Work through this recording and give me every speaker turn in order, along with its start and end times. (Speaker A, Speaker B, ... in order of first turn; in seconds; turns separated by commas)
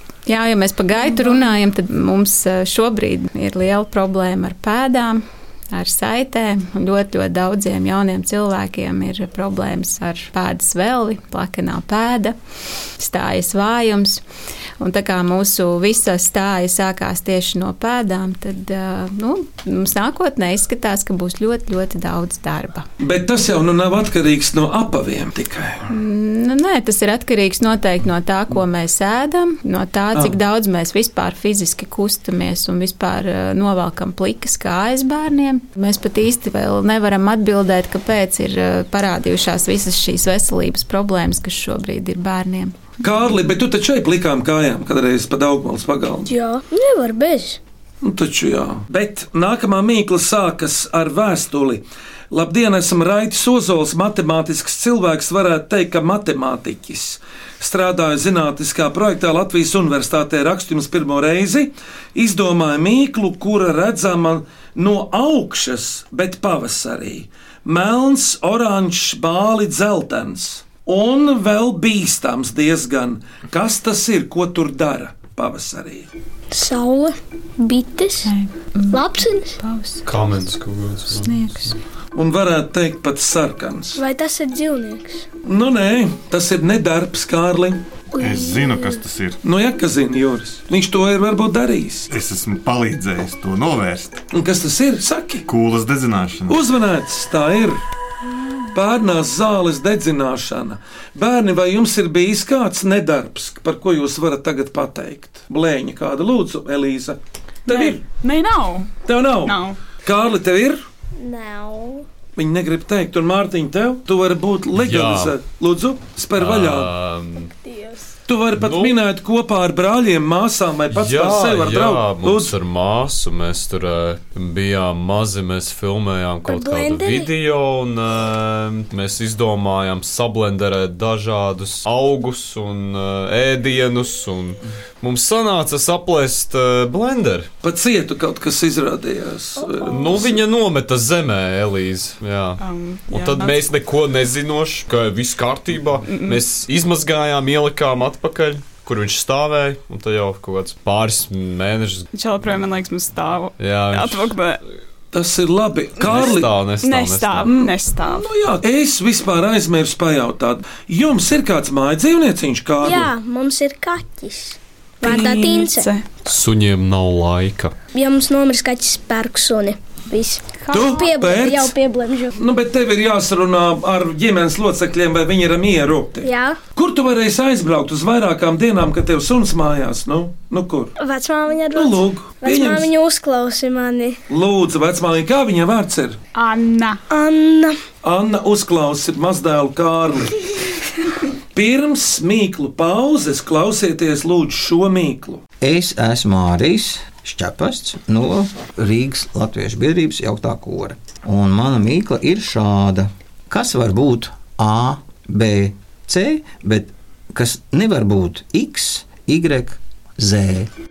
Speaker A: 0.3-12.4, Speaker A: 13.0-14.2, Speaker A: 14.8-22.9, Speaker B: 23.0-25.8, Speaker A: 25.9-42.8, Speaker B: 43.0-46.3, Speaker C: 46.3-47.6, Speaker B: 48.0-76.1, Speaker C: 76.5-78.3, Speaker A: 78.3-79.0, Speaker C: 78.9-79.5, Speaker A: 79.6-80.0, Speaker D: 80.0-81.4, Speaker A: 81.2-81.8, Speaker B: 82.2-84.0, Speaker C: 84.0-85.3, Speaker B: 85.5-87.8, Speaker C: 88.2-89.0, Speaker E: 88.2-89.4, Speaker B: 89.4-92.1, Speaker E: 92.1-94.2, Speaker B: 94.3-95.5, Speaker E: 95.5-96.6, Speaker B: 96.5-97.8, Speaker B: 98.7-108.0, Speaker F: 107.7-109.8, Speaker B: 109.1-110.8, Speaker C: 111.2-112.0, Speaker B: 112.4-116.9, Speaker D: 114.8-115.4, Speaker D: 116.4-117.5, Speaker C: 117.6-118.2, Speaker B: 118.3-122.5, Speaker D: 118.6-119.0, Speaker D: 120.9-137.5, Speaker C: 126.5-127.3, Speaker B: 137.6-140.4, Speaker C: 139.6-140.3, Speaker D: 139.9-152.1, Speaker F: 142.6-143.7, Speaker F: 146.1-146.4, Speaker F: 152.1-154.6, Speaker D: 153.6-154.4, Speaker B: 155.1-156.5, Speaker D: 156.0-157.5, Speaker F: 156.8-158.3, Speaker B: 157.4-163.1, Speaker C: 162.8-165.9, Speaker F: 165.0-166.1, Speaker D: 166.3-167.7, Speaker C: 167.9-172.3, Speaker B: 170.7-171.7, Speaker B: 172.3-180.9, Speaker C: 176.2-176.6, Speaker C: 181.0-184.2, Speaker B: 181.7-182.9, Speaker B: 184.3-186.2, Speaker F: 186.3-187.0, Speaker C: 187.1-187.8, Speaker B: 188.0-190.3, Speaker B: 191.6-195.4, Speaker G: 195.6-210.7